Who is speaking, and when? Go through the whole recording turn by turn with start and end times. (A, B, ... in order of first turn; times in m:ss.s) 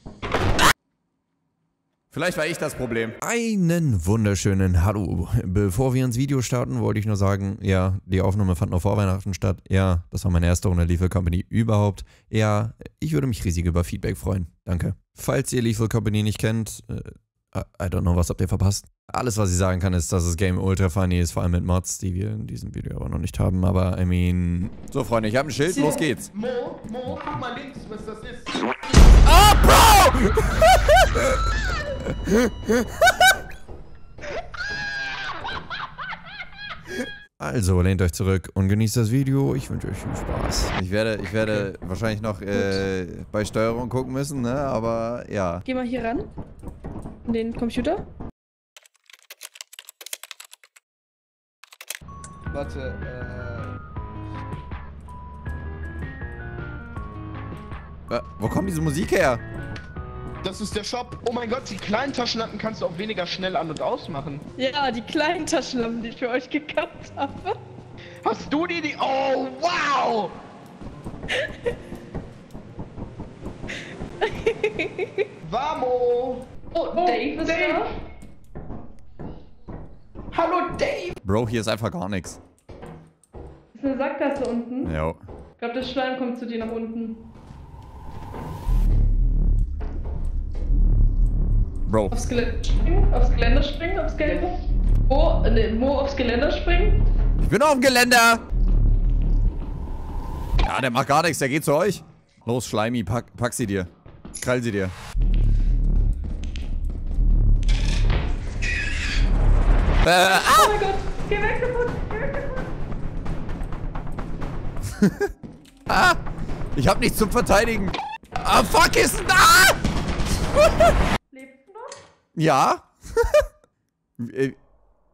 0:02.1-0:26.3 A
0:25.7-0:28.6 B
0:29.2-0:30.8 A
0:32.2-0:32.7 A
0:37.4-0:45.6 A
0:42.5-0:42.8 C
0:45.6-0:46.3 C
0:47.3-0:48.0 C
0:52.5-0:53.8 B
0:58.1-0:59.4 A
1:00.4-1:04.4 B
1:04.6-1:07.6 C
1:08.2-1:10.4 B
1:11.3-1:11.7 C
1:14.2-1:15.3 C
1:15.4-1:17.9 B
1:16.7-1:17.9 C
1:20.3-1:21.1 B
1:21.2-1:22.4 A
1:23.7-1:24.9 C
1:24.8-1:25.2 A
1:25.6-1:27.2 C
1:31.9-1:32.2 A
1:32.1-1:37.1 C
1:34.2-1:34.7 B
1:37.4-1:38.4 A
1:40.6-1:44.9 A
1:50.0-1:50.8 A
1:50.3-1:52.7 C
1:55.0-1:55.3 A
1:55.9-1:56.2 A
1:56.8-1:59.8 A
2:00.6-2:00.9 A
2:01.3-2:02.0 C
2:02.4-2:03.4 A
2:04.2-2:04.6 A